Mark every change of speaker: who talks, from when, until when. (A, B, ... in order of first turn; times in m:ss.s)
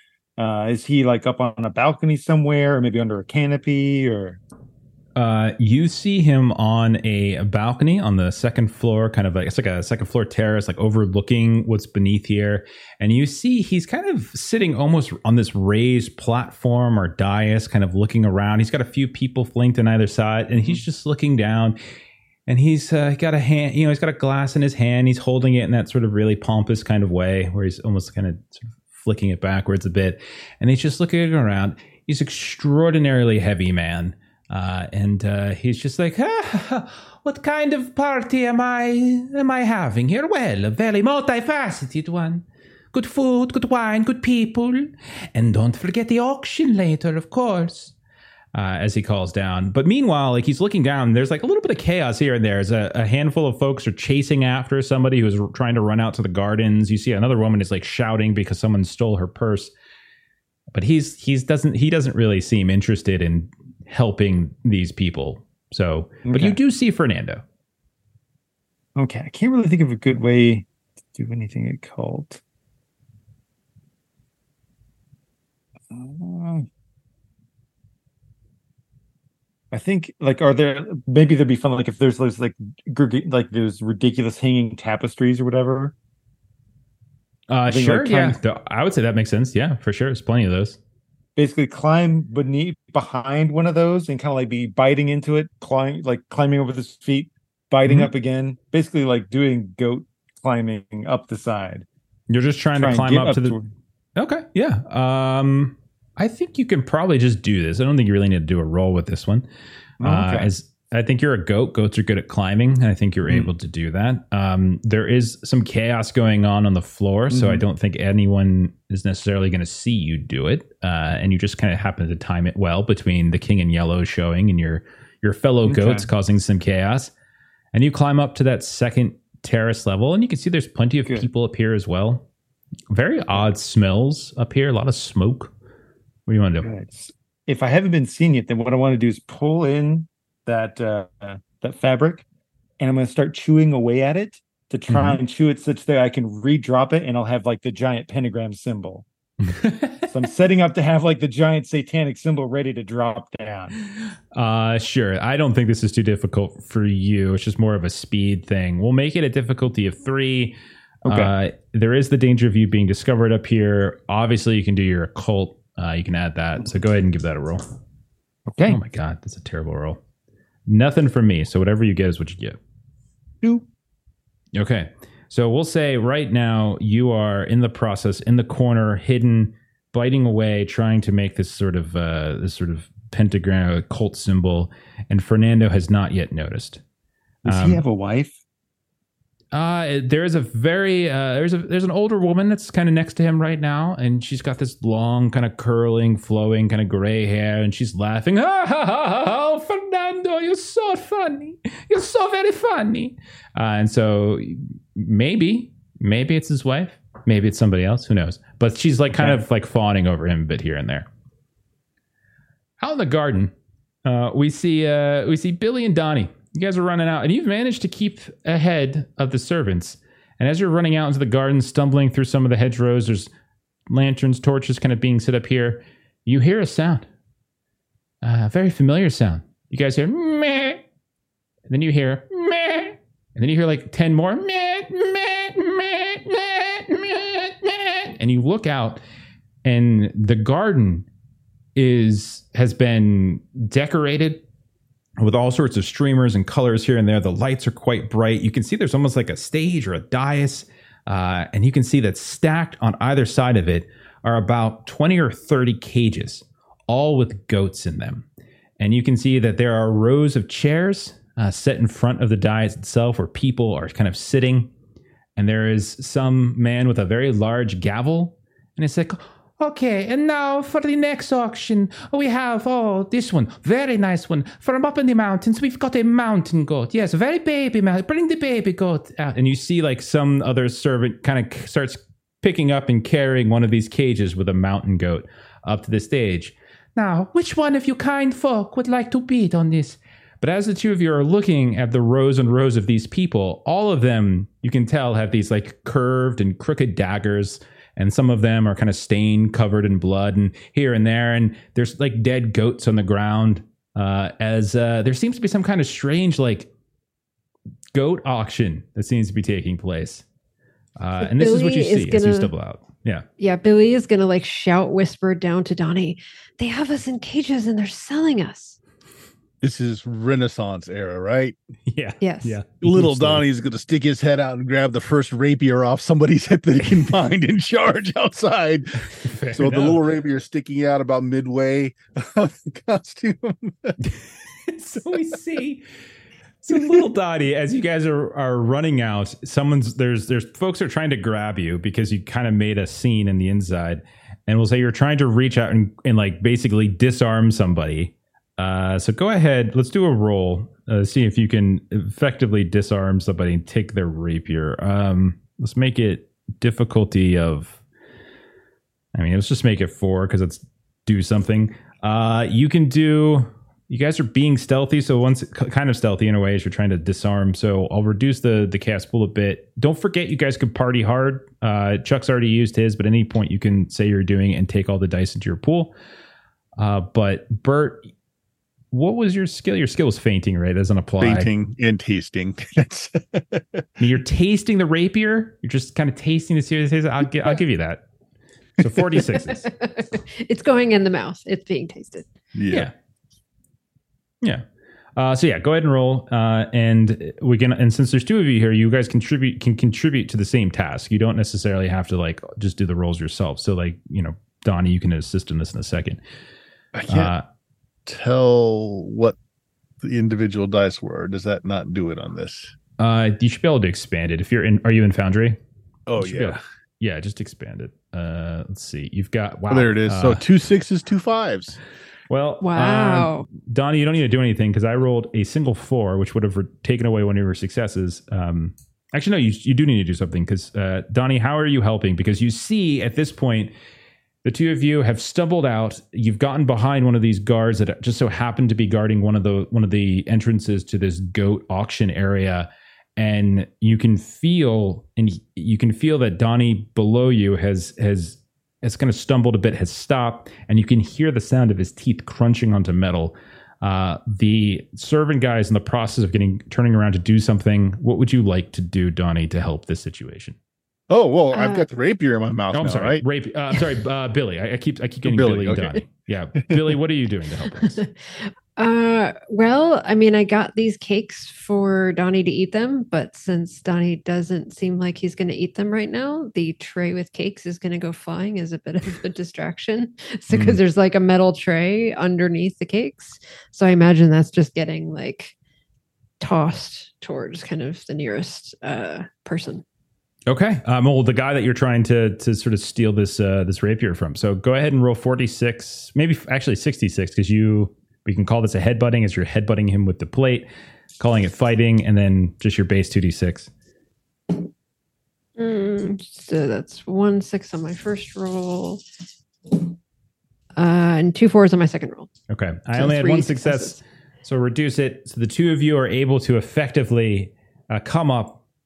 0:00.4-0:04.4 A
0:05.2-0:21.8 B
0:22.5-0:47.9 B
0:48.5-0:59.7 B
1:00.7-1:07.4 B
1:06.2-1:06.6 A
1:09.0-1:12.4 A
1:15.9-1:16.7 A
1:19.7-1:25.9 A
1:27.5-1:30.8 B
1:27.7-1:28.4 A
1:31.4-1:41.8 A
1:42.3-1:43.6 B
1:42.8-1:43.7 A
1:44.2-1:49.4 B
1:50.0-1:50.5 A
1:50.0-2:07.1 B
1:57.3-1:57.6 A
2:05.6-2:06.1 A
2:07.7-2:12.2 B
2:12.9-2:15.5 B
2:16.3-2:16.7 B
2:16.6-2:22.2 A
2:22.8-2:29.0 A
2:24.9-2:25.2 B
2:29.4-2:30.1 B
2:30.1-2:33.7 A
2:34.3-2:47.6 B
2:41.0-2:41.3 A
2:48.5-2:48.8 A
2:48.7-2:50.0 B
2:50.7-2:52.6 B
2:54.5-3:06.8 B
3:07.4-3:07.8 B
3:07.4-3:08.4 A
3:09.5-3:31.1 B
3:32.8-3:33.5 B
3:34.0-3:43.3 B
3:43.9-3:47.1 B
3:48.2-3:50.8 B
3:51.7-3:59.0 B
3:59.6-4:01.1 B
4:01.8-4:04.4 B
4:05.2-4:18.2 B
4:18.8-4:24.7 B
4:25.4-5:06.7 B
5:07.9-5:10.2 B
5:11.0-5:13.2 B
5:11.2-5:12.5 C
5:13.4-5:18.8 C
5:19.6-5:21.6 D
5:21.9-5:23.4 B
5:22.2-5:22.6 C
5:22.8-5:34.0 D
5:29.1-5:30.1 B
5:34.0-5:35.8 B
5:36.6-5:57.8 B
5:59.1-6:15.9 B
6:16.8-6:18.0 B
6:18.9-6:21.5 B
6:21.2-6:23.8 D
6:24.0-6:28.0 B
6:28.8-6:29.7 B
6:29.4-6:32.3 C
6:32.5-6:32.9 D
6:35.2-6:46.2 B
6:46.9-6:47.3 D
6:47.1-6:47.4 B
6:48.0-6:49.4 D
6:50.0-6:52.7 D
6:53.0-6:55.6 B
6:56.1-6:56.6 D
6:56.2-7:00.4 B
6:59.7-7:01.8 D
7:02.3-7:13.7 B
7:02.6-7:03.4 C
7:14.4-7:40.6 B
7:41.1-7:43.2 D
7:41.5-7:41.8 C
7:42.7-7:48.0 B
7:45.2-7:46.0 D
7:47.8-8:05.5 C
8:00.5-8:00.8 B
8:06.4-8:09.8 C
8:10.5-8:20.7 B
8:21.2-8:23.7 B
8:25.6-8:29.0 C
8:30.8-8:32.3 C
8:32.5-8:38.6 B
8:32.9-8:34.0 C